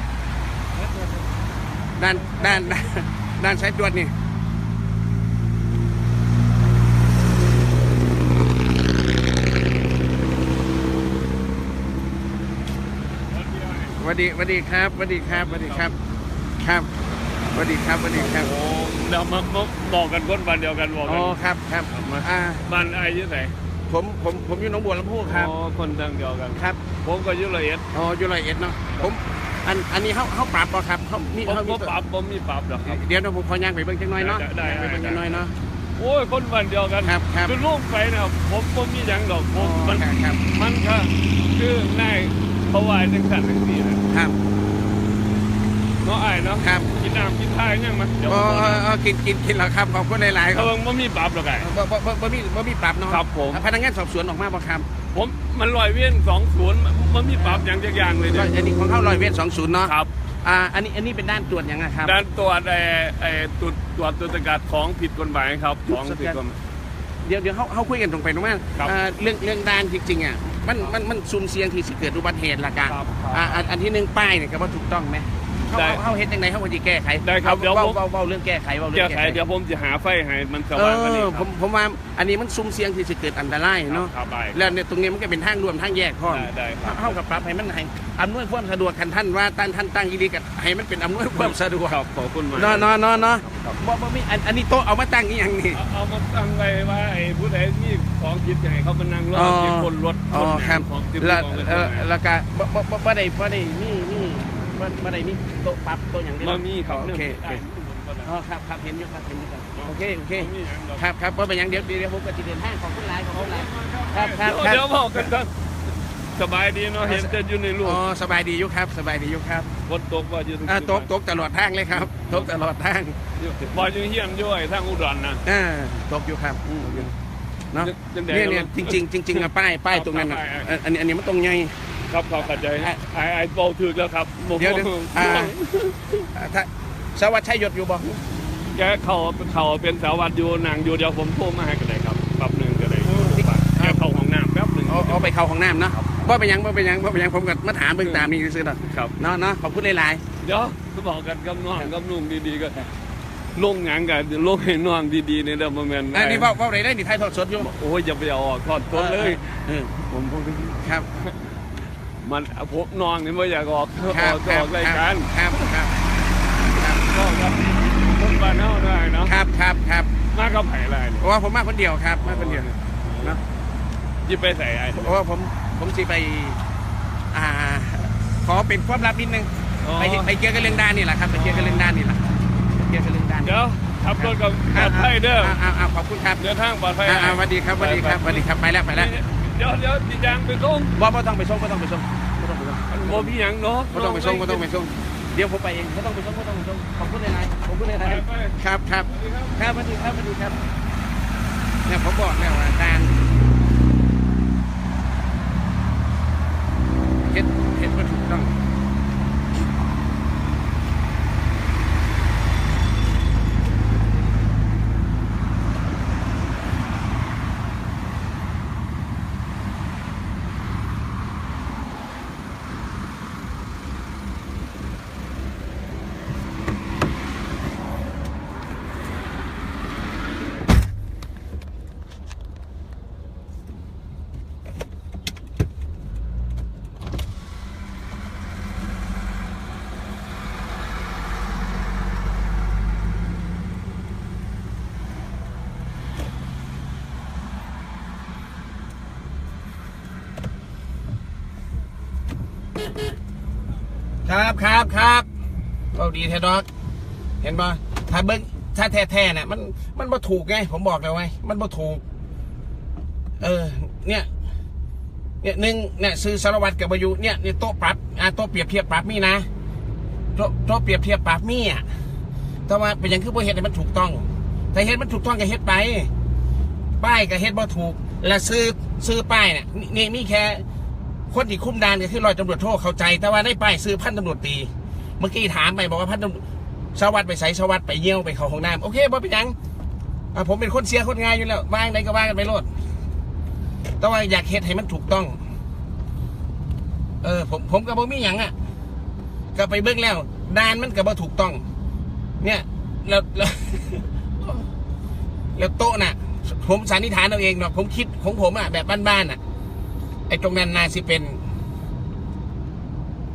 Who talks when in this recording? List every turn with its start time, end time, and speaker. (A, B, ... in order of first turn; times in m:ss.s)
0:00.7-0:02.9 A
0:02.0-0:04.1 B
0:13.3-0:14.0 C
0:14.0-0:15.9 B
0:15.3-0:15.9 C
0:16.6-0:16.9 B
0:17.5-0:18.5 B
0:18.2-0:21.4 C
0:21.0-0:22.6 B
0:21.9-0:23.5 C
0:23.9-0:25.5 B
0:25.2-0:27.9 C
0:26.5-0:26.8 B
0:27.9-0:31.9 B
0:31.4-0:33.0 C
0:32.8-0:35.5 B
0:34.2-0:35.4 C
0:36.0-0:44.0 C
0:37.0-0:37.5 B
0:39.6-0:40.4 B
0:44.1-0:44.4 B
0:46.0-0:48.8 C
0:46.6-0:46.9 B
0:48.2-0:50.7 B
0:50.5-0:51.7 C
0:51.6-0:54.9 B
0:53.1-0:53.6 C
0:55.1-0:58.5 C
0:57.4-0:57.6 B
0:58.3-1:02.2 B
1:02.0-1:06.6 C
1:05.9-1:06.4 B
1:07.2-1:19.4 B
1:12.9-1:13.7 C
1:15.7-1:16.0 C
1:17.2-1:18.0 C
1:18.9-1:21.5 C
1:20.7-1:32.0 B
1:23.9-1:24.7 C
1:26.3-1:27.2 C
1:31.3-1:33.8 C
1:32.5-1:35.8 B
1:35.7-1:42.1 C
1:39.3-1:47.6 B
1:46.4-1:48.3 C
1:48.2-1:55.3 B
1:49.8-1:51.0 C
1:53.3-1:55.5 C
1:56.3-1:58.0 C
1:57.0-1:59.7 B
1:59.8-2:01.1 C
2:00.6-2:03.2 B
2:01.9-2:02.5 C
2:03.4-2:05.4 C
2:05.4-2:07.1 B
2:06.6-2:07.1 C
2:07.7-2:11.8 B
2:07.8-2:10.7 C
2:12.1-2:16.2 C
2:12.4-2:13.0 B
2:14.6-2:15.6 B
2:16.3-2:18.2 B
2:18.7-2:25.3 C
2:23.0-2:24.0 B
2:24.9-2:30.2 B
2:28.0-2:28.3 C
2:28.8-2:29.1 C
2:30.4-2:32.9 C
2:33.6-2:36.5 C
2:36.1-2:37.7 B
2:37.6-2:41.3 C
2:38.9-2:39.9 B
2:40.8-2:41.1 B
2:42.2-2:45.7 C
2:44.0-2:46.0 B
2:46.8-2:47.0 B
2:47.0-2:49.3 C
2:49.2-2:50.1 B
2:50.3-2:51.3 C
2:51.2-2:52.7 B
2:52.2-2:53.4 C
2:54.2-2:55.2 C
2:54.9-2:56.6 B
2:57.3-3:03.6 B
2:59.8-3:00.3 C
3:01.3-3:01.9 C
3:03.4-3:05.6 C
3:04.1-3:06.4 B
3:06.4-3:10.9 C
3:07.0-3:09.1 B
3:10.9-3:13.3 B
3:12.9-3:14.7 C
3:13.9-3:20.6 B
3:18.0-3:19.6 C
3:21.8-3:23.2 B
3:27.2-3:28.6 B
4:14.2-4:15.2 B
4:15.9-4:16.6 B
4:17.4-4:22.0 B
4:23.4-4:24.3 B
4:25.4-4:29.5 B
4:30.4-4:31.8 B
4:32.7-4:36.1 B
4:37.0-4:40.6 B
4:41.3-4:46.4 B
4:46.9-4:49.5 B
4:50.3-4:52.7 B
4:54.0-4:55.4 B
4:57.2-4:58.5 B
4:59.5-5:01.6 B
5:02.4-5:04.7 B
5:05.6-5:09.4 B
5:10.3-5:11.4 B